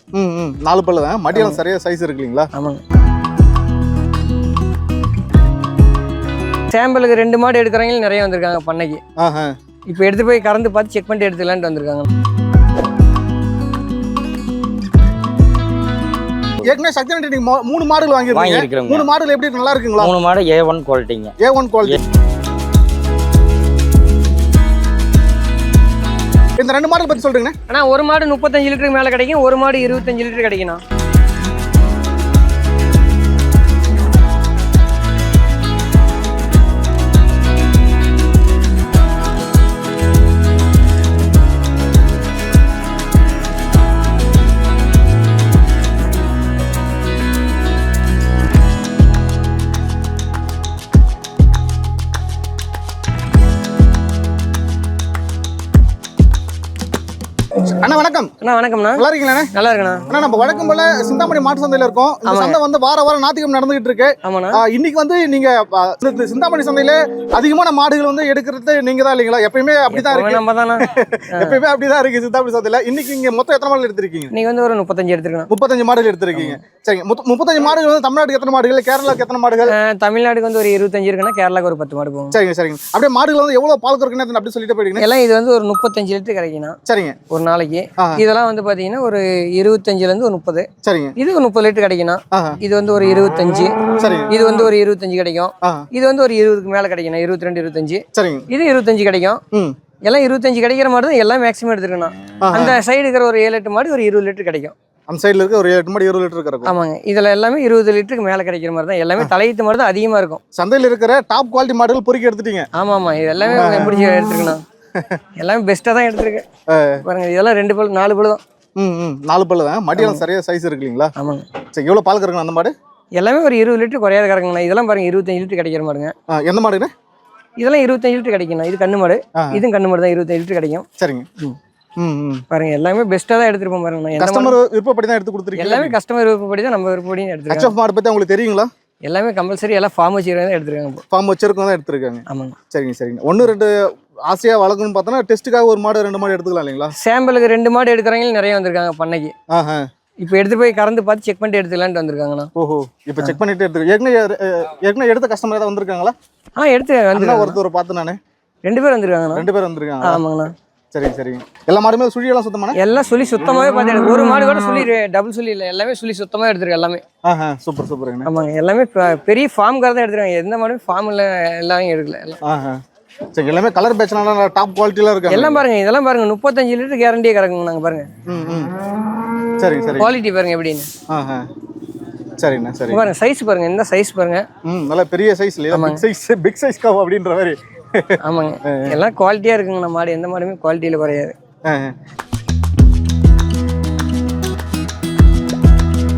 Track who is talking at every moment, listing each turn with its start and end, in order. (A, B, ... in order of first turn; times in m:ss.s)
0:00.1-0:02.5 A
0:01.3-0:01.6 B
0:02.5-0:02.8 B
0:06.7-0:09.0 B
0:09.2-0:09.5 A
0:09.9-0:12.1 B
0:16.6-0:20.1 A
0:18.3-0:19.1 C
0:20.0-0:21.3 C
0:21.4-0:22.0 A
0:26.6-0:27.5 A
0:27.7-0:30.8 B
0:57.7-0:58.3 A
0:58.4-1:00.1 B
0:59.0-0:59.5 A
1:00.1-1:14.3 A
1:02.3-1:02.6 B
1:04.2-1:04.6 B
1:09.9-1:11.6 B
1:14.3-1:15.5 B
1:15.5-1:19.7 A
1:19.7-1:22.4 B
1:22.3-1:25.0 A
1:25.0-1:26.8 B
1:26.9-1:27.2 A
1:27.3-1:33.8 B
1:28.0-1:28.2 A
1:30.8-1:31.1 A
1:32.3-1:32.6 A
1:34.0-1:34.3 A
1:34.3-1:39.4 B
1:35.6-1:35.9 A
1:38.1-1:38.5 A
1:40.0-1:44.7 B
1:42.4-1:42.8 A
1:45.1-1:46.7 A
1:46.6-1:50.4 B
1:50.5-1:52.7 A
1:52.8-1:54.6 B
1:53.5-1:54.3 A
1:55.4-1:56.4 B
1:56.7-1:57.0 A
1:57.0-1:58.4 B
1:58.8-2:01.1 A
2:00.0-2:00.2 B
2:01.2-2:01.5 B
2:01.7-2:02.7 A
2:03.2-2:06.1 B
2:06.3-2:06.9 A
2:07.6-2:10.9 B
2:11.0-2:11.3 A
2:12.0-2:12.4 A
2:12.5-2:14.6 B
2:14.2-2:16.0 A
2:15.6-2:17.7 B
2:17.5-2:18.7 A
2:19.1-2:21.0 B
2:21.1-2:23.8 A
2:22.3-2:22.6 B
2:24.3-2:26.9 A
2:27.0-2:29.3 B
2:29.5-2:29.9 A
2:30.2-2:32.5 B
2:32.6-2:36.1 A
2:36.6-2:37.6 B
2:37.1-2:38.2 A
2:38.6-2:39.5 B
2:39.3-2:40.2 A
2:40.0-2:40.5 B
2:40.9-2:42.8 A
2:42.8-2:47.0 B
2:47.2-2:48.3 A
2:48.2-2:52.4 B
2:52.4-2:52.8 A
2:53.3-2:55.6 A
2:55.3-2:58.1 B
2:58.3-2:58.7 A
2:59.6-3:00.1 A
3:00.0-3:00.9 B
3:01.1-3:01.5 A
3:02.4-3:03.0 A
3:02.9-3:04.4 B
3:04.6-3:09.0 A
3:05.7-3:06.0 B
3:08.2-3:11.4 B
3:11.7-3:11.9 A